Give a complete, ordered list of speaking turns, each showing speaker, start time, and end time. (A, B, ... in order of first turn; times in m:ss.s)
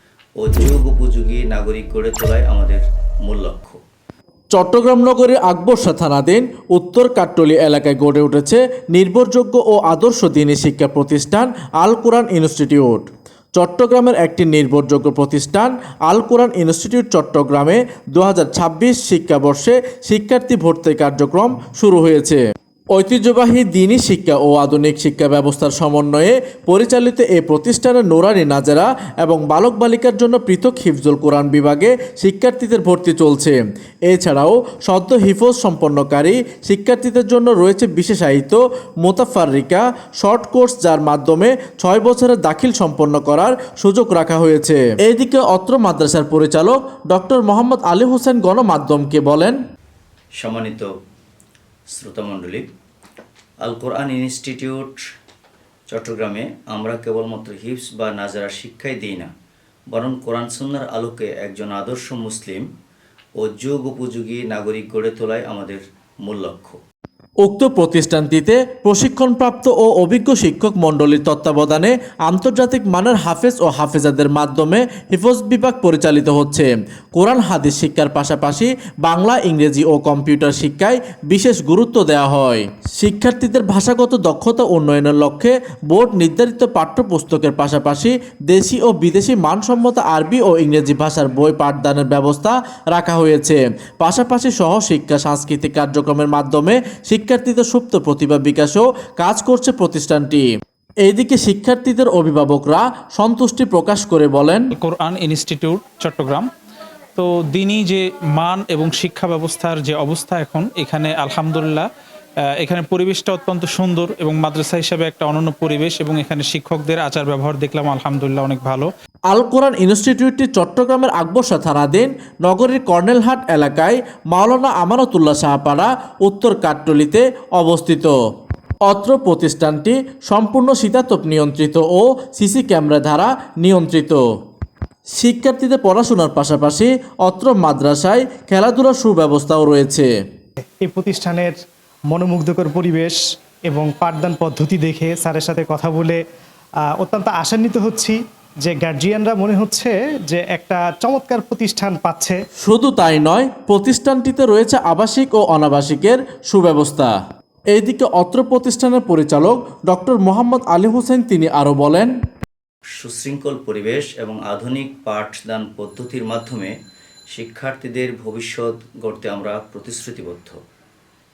0:00.4-0:03.8 A
0:04.5-0:22.4 B
0:22.9-0:49.6 B
0:50.4-0:50.9 A
0:51.9-0:52.6 A
0:53.6-0:55.0 A
0:55.9-0:59.3 A
0:59.9-1:02.7 A
1:03.4-1:06.8 A
1:07.4-1:40.5 B
1:41.0-1:44.7 B
1:44.8-1:46.4 C
1:47.2-1:51.9 C
1:52.6-1:58.9 C
1:59.3-2:08.1 B
2:08.9-2:14.2 B
2:15.2-2:20.1 B
2:20.8-2:21.6 D
2:22.1-2:26.2 D
2:26.9-2:32.4 D
2:32.6-2:37.1 B
2:37.7-2:42.1 B
2:43.0-2:46.7 A
2:47.3-2:50.6 A